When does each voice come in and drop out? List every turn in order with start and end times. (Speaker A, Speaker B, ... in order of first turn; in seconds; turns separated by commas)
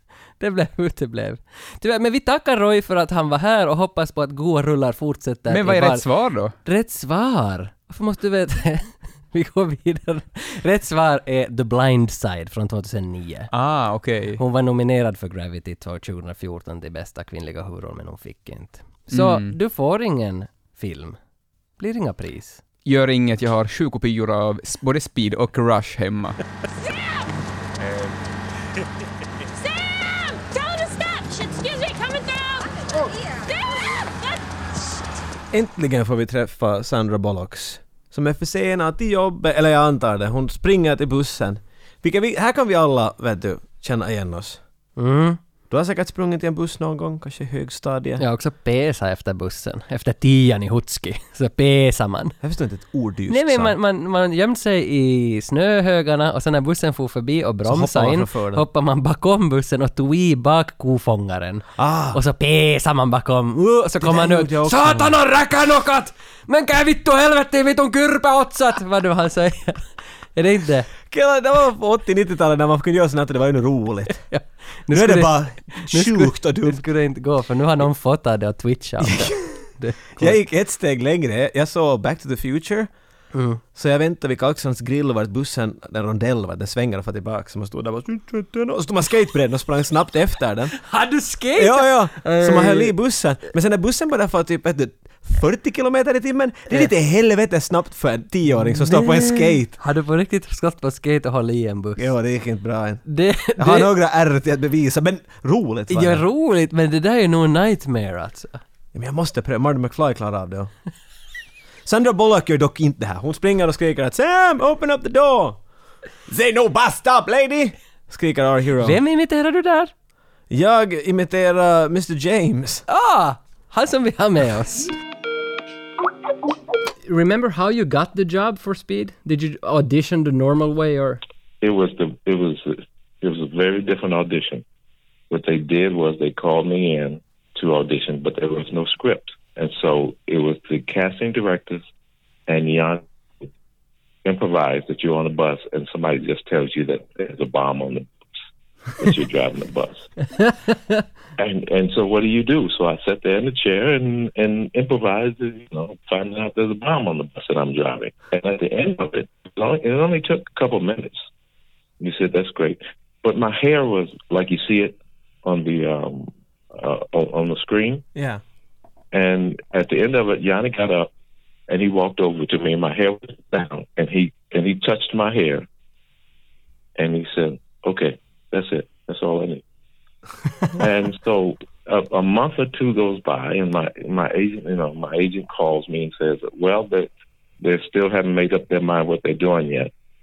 Speaker A: 0.4-6.1, Speaker B: 5.5-6.5, Speaker A: 6.6-13.5, Speaker B: 13.5-14.4, Speaker A: 14.4-21.2, Speaker B: 19.1-19.5, Speaker A: 21.8-22.6, Speaker B: 22.8-26.4, Speaker C: 29.6-34.4, Speaker D: 35.5-44.6, Speaker A: 45.0-45.4, Speaker D: 45.7-48.2, Speaker A: 48.2-52.4, Speaker D: 52.4-53.7, Speaker A: 53.3-70.9, Speaker D: 57.6-58.6, Speaker D: 61.8-62.2, Speaker D: 64.0-65.2, Speaker D: 71.1-74.2, Speaker A: 74.2-80.4, Speaker D: 74.9-76.8, Speaker D: 79.0-79.4, Speaker D: 80.2-82.9, Speaker A: 83.3-83.6, Speaker D: 83.7-90.8, Speaker A: 90.7-92.9, Speaker D: 91.5-99.7, Speaker A: 98.5-102.1, Speaker D: 102.0-103.0, Speaker A: 103.0-103.9, Speaker D: 103.6-106.2, Speaker A: 105.9-108.6, Speaker D: 108.9-110.7, Speaker D: 111.8-115.6, Speaker D: 116.3-119.0, Speaker A: 118.8-119.9, Speaker D: 120.5-122.8, Speaker A: 122.9-124.9, Speaker A: 127.0-131.2, Speaker E: 131.6-134.6, Speaker E: 135.3-141.8, Speaker E: 142.5-143.1, Speaker E: 144.2-148.1, Speaker E: 148.9-150.0, Speaker A: 150.4-151.0, Speaker E: 151.4-161.2, Speaker E: 162.0-168.1, Speaker D: 168.1-168.4, Speaker E: 169.1-171.1, Speaker E: 171.7-175.6, Speaker E: 177.0-179.6, Speaker E: 180.7-187.1, Speaker E: 187.6-189.9